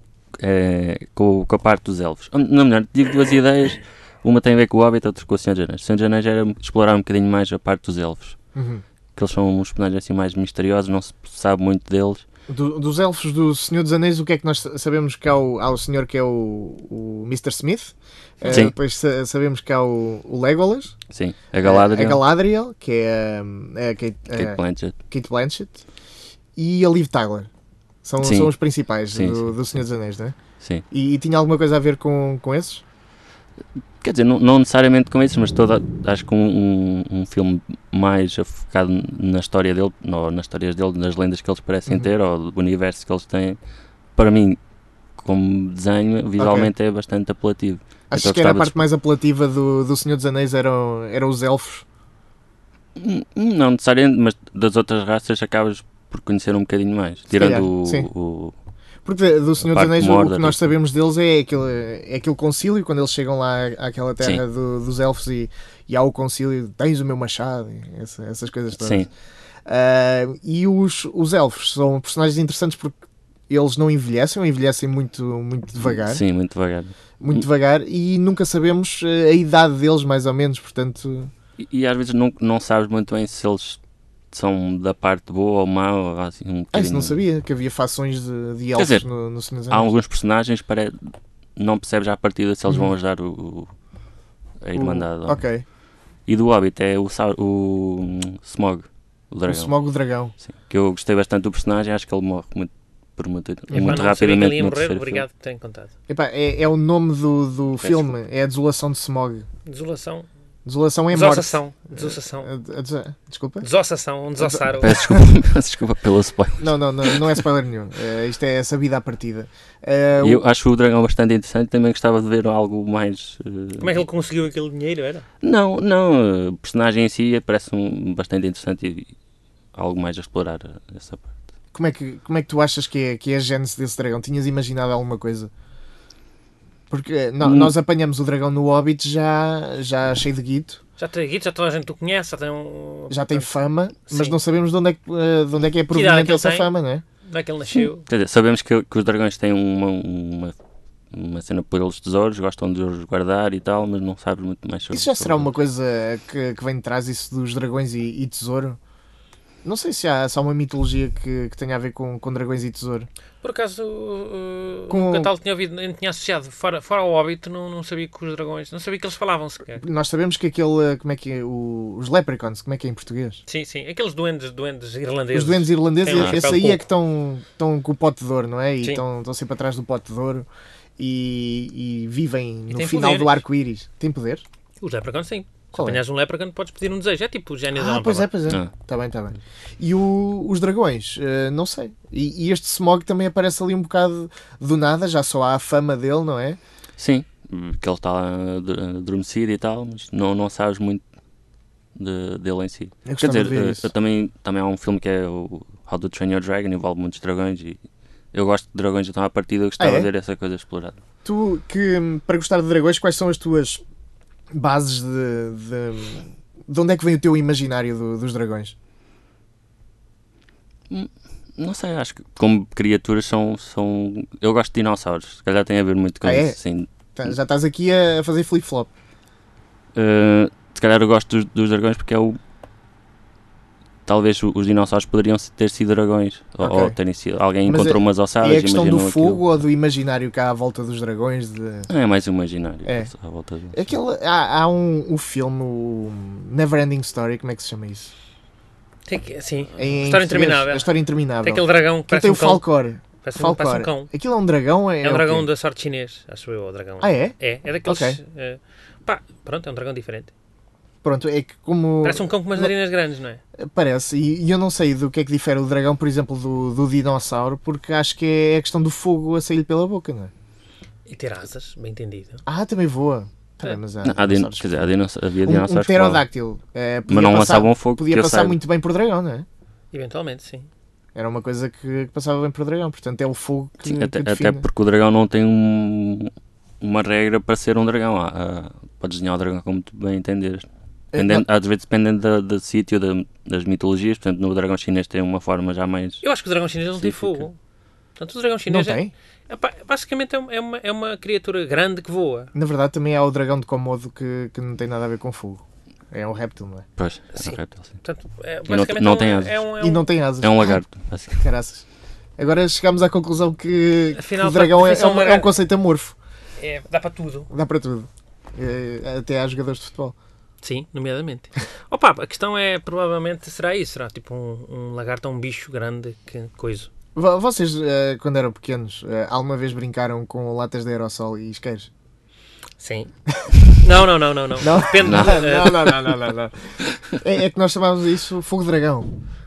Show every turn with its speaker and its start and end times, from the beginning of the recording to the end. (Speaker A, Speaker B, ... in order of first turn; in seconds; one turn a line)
Speaker A: 0.4-8.4
Speaker B: 8.5-8.8
Speaker A: 9.2-12.2
Speaker B: 12.5-20.9
Speaker A: 18.5-18.7
Speaker A: 21.1-22.2
Speaker B: 21.6-25.8
Speaker A: 24.3-24.9
Speaker B: 26.6-27.5
Speaker B: 28.0-30.4
Speaker A: 28.2-28.5
Speaker A: 29.1-29.5
Speaker B: 30.9-32.8
Speaker A: 34.0-43.6
Speaker A: 44.1-44.6
Speaker A: 45.2-48.8
Speaker B: 46.4-46.7
Speaker B: 48.1-51.8
Speaker A: 53.0-58.5
Speaker B: 57.3-58.1
Speaker B: 59.0-69.1
Speaker A: 59.6-60.7
Speaker A: 68.8-69.1
Speaker B: 69.7-73.0
Speaker B: 73.5-76.2
Speaker A: 75.8-77.4
Speaker B: 77.2-81.3
Speaker A: 81.6-83.8
Speaker A: 84.3-87.2
Speaker B: 86.7-89.9
Speaker A: 88.8-89.0
Speaker A: 89.7-93.7
Speaker A: 94.6-95.4
Speaker B: 94.7-95.6
Speaker A: 96.3-99.8
Speaker B: 99.5-100.3
Speaker A: 100.4-105.2
Speaker C: 103.7-105.9
Speaker B: 103.7-104.0
Speaker B: 106.1-109.5
Speaker A: 107.8-108.1
Speaker C: 109.7-110.3
Speaker B: 110.7-113.7
Speaker C: 111.1-112.5
Speaker C: 113.6-115.0
Speaker B: 114.4-115.2
Speaker A: 114.7-117.4
Speaker B: 116.6-120.4
Speaker A: 120.2-124.0
Speaker C: 123.8-125.2
Speaker A: 125.4-129.1
Speaker A: 129.7-131.3
Speaker B: 131.7-135.5
Speaker B: 136.9-140.8
Speaker A: 137.4-137.7
Speaker C: 141.0-143.5
Speaker B: 143.1-147.0
Speaker C: 144.1-144.4
Speaker C: 145.9-146.7
Speaker C: 147.2-148.1
Speaker A: 148.1-150.5
Speaker A: 151.1-155.5
Speaker B: 154.9-158.8
Speaker B: 159.6-163.1
Speaker C: 163.4-169.8
Speaker B: 164.9-165.3
Speaker B: 169.8-173.4
Speaker C: 173.5-176.8
Speaker B: 175.3-184.4
Speaker A: 176.1-176.6
Speaker C: 182.7-183.4
Speaker C: 184.8-188.3
Speaker B: 185.7-186.0
Speaker B: 187.7-196.6
Speaker A: 197.0-201.0
Speaker A: 201.9-207.8
Speaker B: 203.1-203.9
Speaker A: 208.3-211.0
Speaker B: 209.8-210.1
Speaker B: 211.2-213.8
Speaker B: 214.5-218.7
Speaker A: 220.9-226.9
Speaker B: 226.2-226.6
Speaker B: 227.2-228.9
Speaker A: 229.9-232.4
Speaker A: 234.1-239.4
Speaker B: 236.6-236.9
Speaker B: 237.6-241.9
Speaker A: 241.9-243.8
Speaker B: 242.8-243.1
Speaker B: 243.7-248.1
Speaker C: 249.1-250.9
Speaker B: 249.8-255.4
Speaker C: 251.4-252.7
Speaker C: 253.2-254.1
Speaker C: 255.0-260.3
Speaker B: 257.0-258.2
Speaker B: 261.0-262.7
Speaker C: 262.0-263.4
Speaker B: 263.6-270.3
Speaker C: 271.1-272.4
Speaker B: 272.4-274.9
Speaker A: 274.0-276.2
Speaker B: 275.4-279.4
Speaker A: 277.1-278.6
Speaker C: 279.9-280.7
Speaker B: 281.1-284.6
Speaker A: 283.8-296.2
Speaker B: 291.1-291.4
Speaker C: 296.2-297.6
Speaker A: 297.0-297.4
Speaker C: 298.2-302.5
Speaker B: 298.7-299.1
Speaker B: 302.5-306.9
Speaker A: 307.0-307.9
Speaker C: 307.3-310.1
Speaker A: 308.7-309.6
Speaker B: 309.8-310.8
Speaker A: 310.4-311.5
Speaker B: 311.4-311.9
Speaker B: 312.4-316.1
Speaker C: 314.1-315.5
Speaker C: 316.6-317.5
Speaker B: 317.5-320.1
Speaker C: 320.6-326.9
Speaker B: 327.1-331.9
Speaker C: 332.8-333.1
Speaker C: 333.7-335.9
Speaker B: 334.6-339.1
Speaker A: 335.0-335.4